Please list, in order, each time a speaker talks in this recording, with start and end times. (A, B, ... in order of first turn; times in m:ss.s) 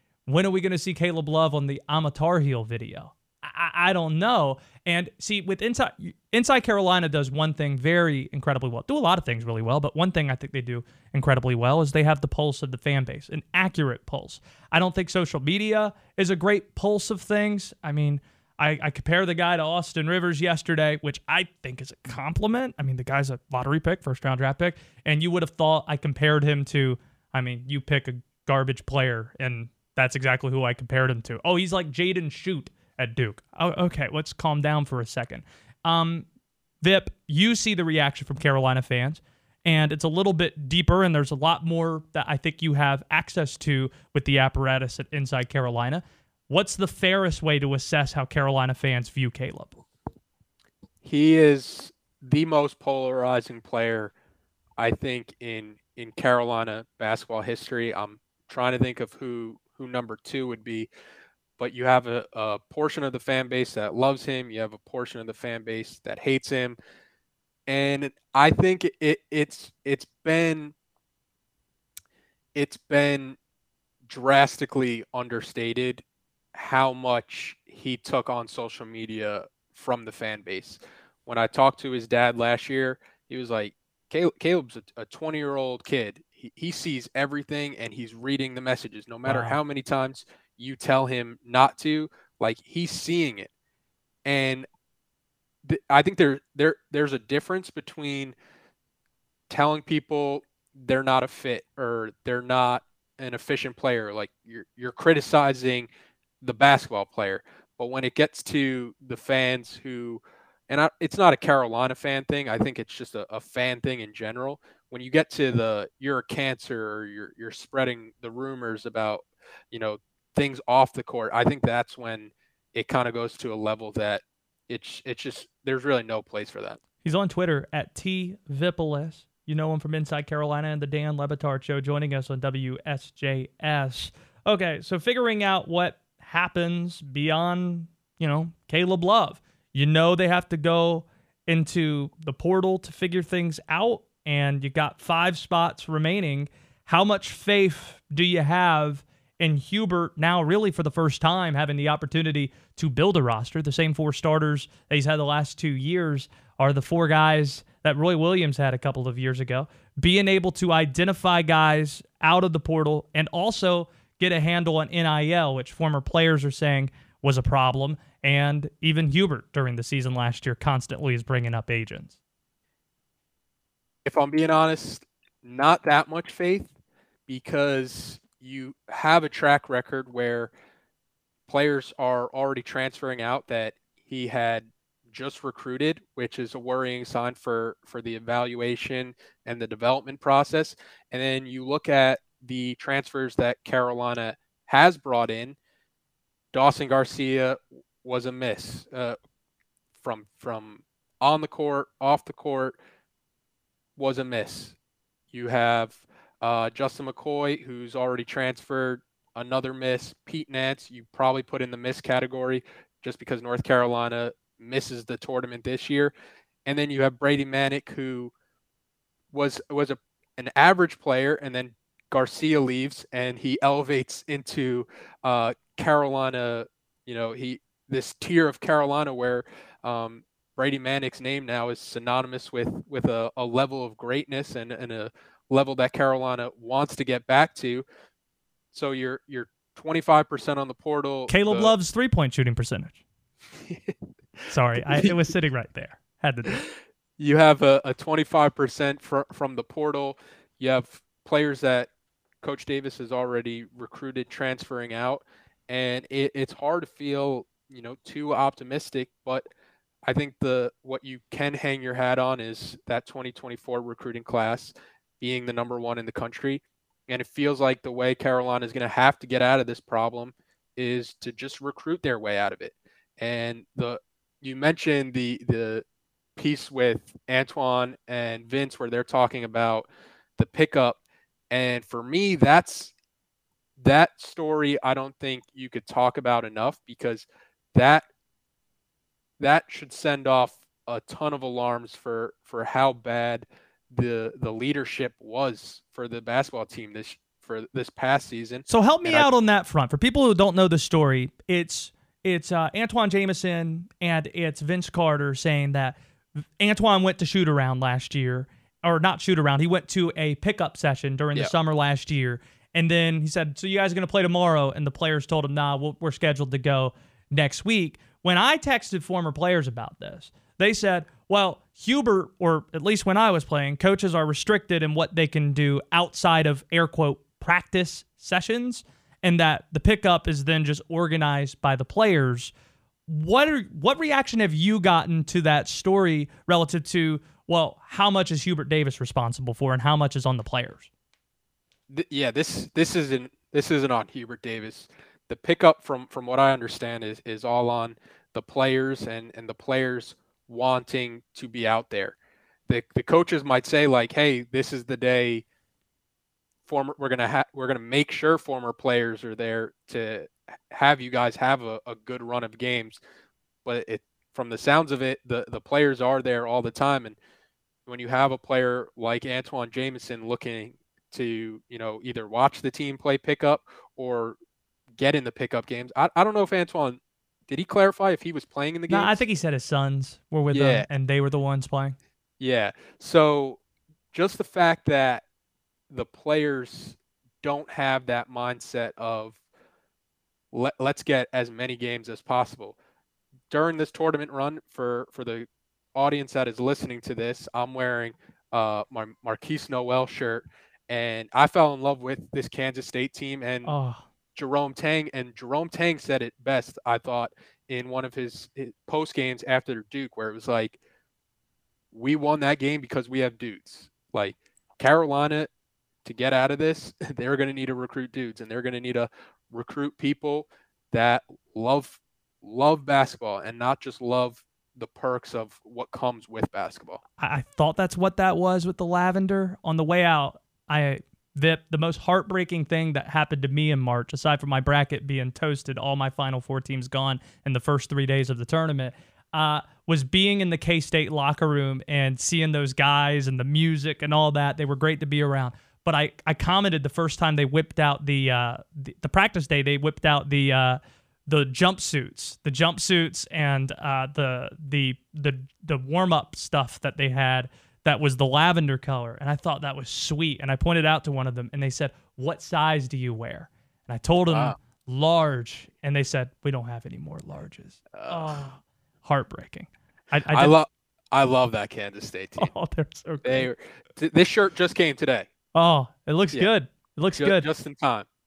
0:00.3-0:36.3 A
0:36.8-0:49.8 A
0:51.0-0:54.1 B
0:54.8-1:00.9 B
1:01.6-1:06.8 B
1:07.7-1:10.7 B
1:12.6-1:13.4 B
1:14.1-1:16.0 B
1:16.6-1:33.5 B
1:29.2-1:29.6 A
1:34.2-1:34.7 B
1:35.6-1:38.4 B
1:39.5-1:45.9 B
1:46.4-2:06.8 B
2:07.0-2:52.2 A
2:54.0-2:56.8 B
2:57.3-3:00.5 B
3:01.5-3:15.6 B
3:16.5-3:19.2 B
3:20.0-3:22.8 B
3:24.0-3:24.8 B
3:25.3-3:36.1 B
3:36.7-3:38.3 B
3:39.3-3:57.8 B
3:58.7-4:01.8 B
4:01.3-4:03.0 A
4:03.7-4:03.9 B
4:04.5-4:06.6 A
4:04.8-4:05.2 B
4:07.2-4:11.9 B
4:12.4-4:19.5 B
4:20.1-4:35.8 B
4:36.4-4:41.0 B
4:41.5-4:42.9 B
4:43.8-4:48.1 B
4:49.4-4:59.3 B
4:58.7-5:06.0 A
5:06.6-5:32.5 A
5:33.1-5:40.9 A
5:41.9-5:52.2 B
5:52.7-5:55.4 B
5:56.6-6:03.0 B
6:03.6-6:07.2 B
6:07.9-6:14.4 B
6:14.9-6:19.2 B
6:18.9-6:22.0 A
6:20.5-6:20.9 B
6:22.4-6:23.6 B
6:24.1-6:25.2 B
6:25.9-6:29.4 B
6:30.5-6:32.8 B
6:33.5-6:43.7 B
6:43.6-6:44.1 A
6:44.4-6:50.8 B
6:51.9-6:55.5 B
6:56.0-7:07.0 B
7:07.2-7:50.6 A
7:44.3-7:44.6 B
7:47.9-7:48.4 B
7:50.3-7:52.5 B
7:52.4-7:53.5 A
7:53.2-7:55.3 B
7:55.6-7:57.5 A
7:57.2-7:58.1 B